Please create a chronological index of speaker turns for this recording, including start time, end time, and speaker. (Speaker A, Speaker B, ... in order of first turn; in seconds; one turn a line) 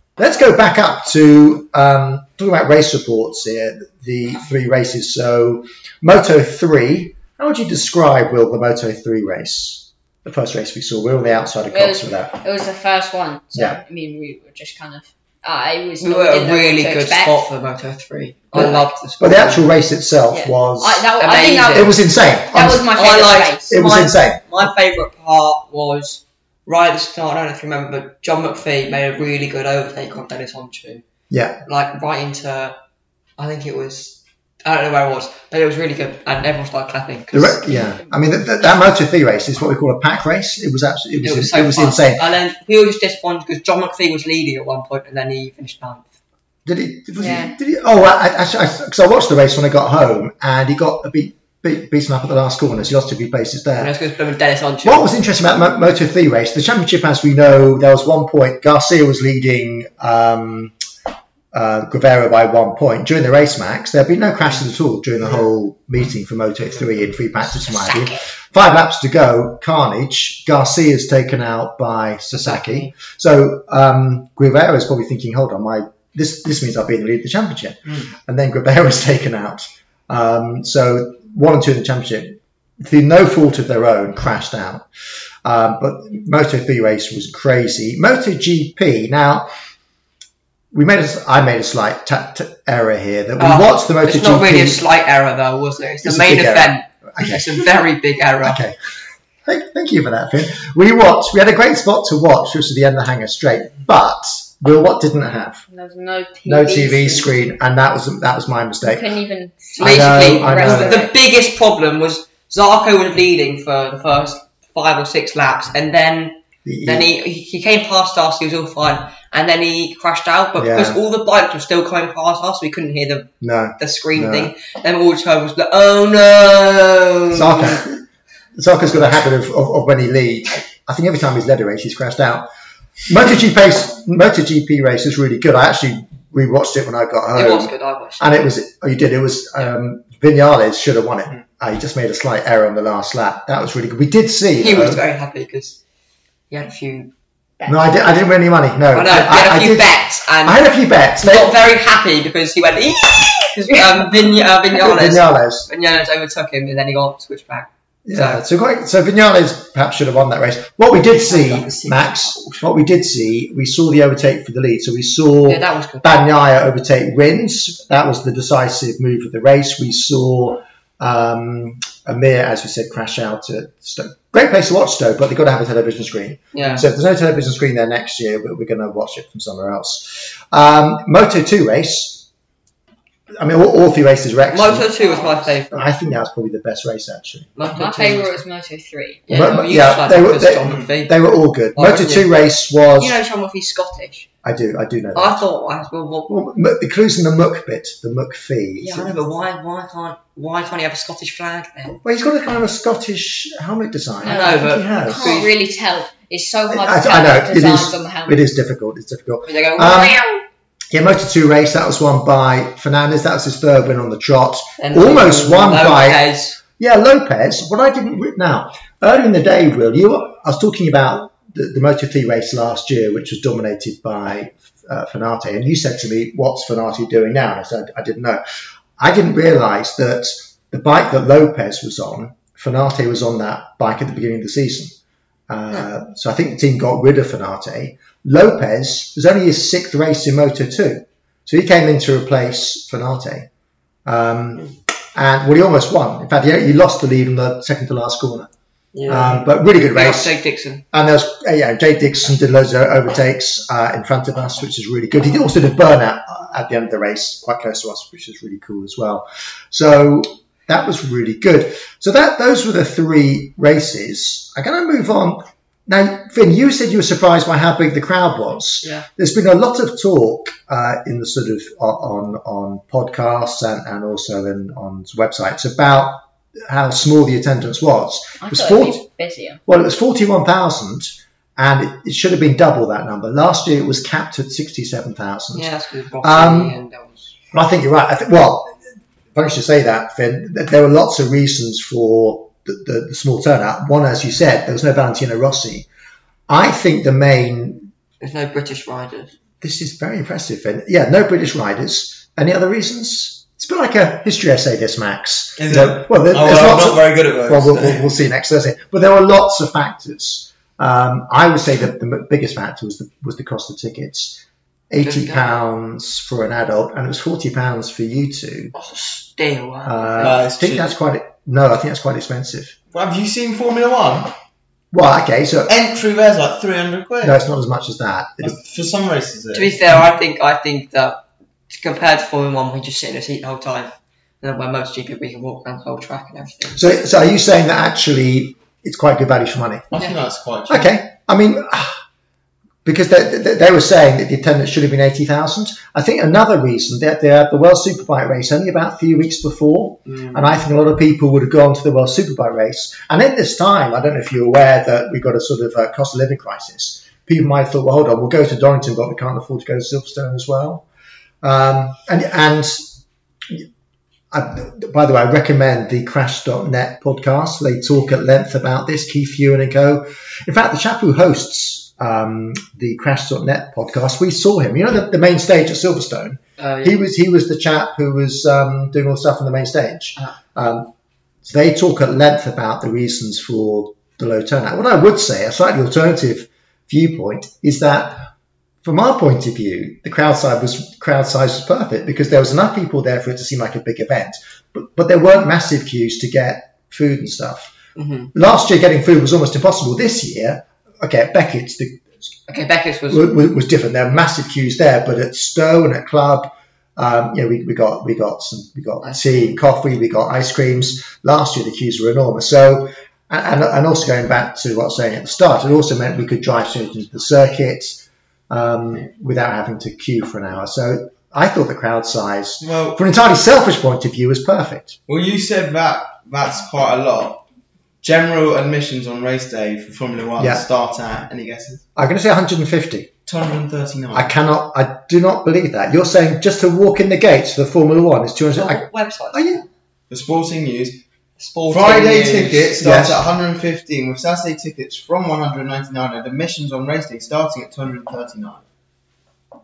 Speaker A: 0.2-12.4
Speaker B: 11.7-17.5
Speaker A: 13.5-13.8
Speaker C: 16.0-19.7
Speaker A: 18.5-21.1
Speaker B: 20.3-23.8
Speaker C: 21.2-22.0
Speaker A: 21.7-22.9
Speaker C: 22.9-31.1
Speaker A: 23.7-24.7
Speaker A: 31.3-31.6
Speaker C: 31.7-32.8
Speaker C: 33.4-37.7
Speaker A: 37.3-42.2
Speaker B: 37.7-38.0
Speaker C: 41.2-46.1
Speaker A: 46.7-53.9
Speaker B: 47.2-47.5
Speaker C: 53.8-55.1
Speaker A: 54.8-60.8
Speaker A: 61.5-84.9
Speaker C: 72.4-72.9
Speaker A: 85.4-89.5
Speaker A: 90.7-94.8
Speaker C: 93.4-98.6
Speaker A: 96.0-97.5
Speaker A: 98.4-98.8
Speaker A: 99.5-105.6
Speaker B: 105.7-107.3
Speaker A: 106.5-109.2
Speaker B: 108.8-111.1
Speaker C: 109.8-127.8
Speaker A: 109.8-111.0
Speaker A: 116.7-117.1
Speaker A: 120.6-121.0
Speaker A: 123.4-124.5
Speaker A: 127.3-128.0
Speaker A: 128.6-132.5
Speaker A: 133.1-145.0
Speaker C: 137.3-138.4
Speaker C: 144.6-145.8
Speaker C: 146.5-147.1
Speaker A: 147.7-151.6
Speaker C: 148.9-158.4
Speaker A: 154.7-155.7
Speaker A: 158.1-182.3
Speaker C: 161.0-162.6
Speaker C: 165.5-166.3
Speaker C: 176.5-176.9
Speaker A: 183.4-187.7
Speaker C: 184.5-185.9
Speaker B: 185.0-185.3
Speaker C: 187.6-188.4
Speaker B: 187.7-189.3
Speaker C: 189.3-191.2
Speaker A: 189.3-193.2
Speaker D: 190.7-190.9
Speaker C: 191.7-192.3
Speaker C: 192.9-194.3
Speaker A: 194.4-195.4
Speaker C: 195.2-196.3
Speaker A: 196.3-199.2
Speaker C: 198.8-202.0
Speaker A: 202.0-205.3
Speaker B: 204.2-208.4
Speaker C: 204.2-205.5
Speaker A: 206.7-210.2
Speaker C: 209.5-210.4
Speaker A: 210.9-216.3
Speaker C: 214.8-216.6
Speaker A: 216.8-228.4
Speaker A: 229.0-235.0
Speaker A: 235.5-243.5
Speaker A: 244.1-248.5
Speaker C: 248.9-250.8
Speaker A: 249.1-250.4
Speaker A: 250.9-279.1
Speaker C: 268.8-269.1
Speaker B: 278.4-279.6
Speaker A: 279.7-285.7
Speaker C: 285.5-287.3
Speaker A: 286.2-286.8
Speaker A: 287.5-288.8
Speaker A: 289.3-295.9
Speaker A: 296.5-297.9
Speaker C: 298.2-299.3
Speaker A: 299.6-318.7
Speaker D: 305.6-308.1
Speaker C: 315.0-315.6
Speaker C: 318.7-320.4
Speaker A: 319.9-322.8
Speaker D: 320.2-320.9
Speaker D: 322.9-324.3
Speaker A: 324.9-325.7
Speaker D: 325.7-327.4
Speaker A: 327.2-328.6
Speaker D: 328.4-329.8
Speaker C: 329.5-336.8
Speaker A: 336.8-339.9
Speaker D: 339.9-340.9
Speaker A: 340.7-342.0
Speaker A: 342.9-360.9
Speaker D: 350.1-350.5
Speaker A: 361.4-363.0
Speaker A: 364.3-380.9
Speaker C: 376.6-377.0
Speaker A: 381.4-388.3
Speaker A: 388.8-397.7
Speaker C: 398.0-398.3
Speaker A: 398.3-402.1
Speaker C: 402.5-403.3
Speaker A: 403.1-425.0
Speaker C: 409.0-409.6
Speaker D: 422.6-423.0
Speaker D: 425.1-427.4
Speaker D: 428.0-431.8
Speaker A: 430.4-430.6
Speaker A: 432.0-433.1
Speaker D: 433.3-434.3
Speaker A: 434.1-439.6
Speaker C: 438.5-439.7
Speaker D: 440.1-441.0
Speaker C: 441.4-442.7
Speaker D: 441.7-448.6
Speaker A: 442.8-443.3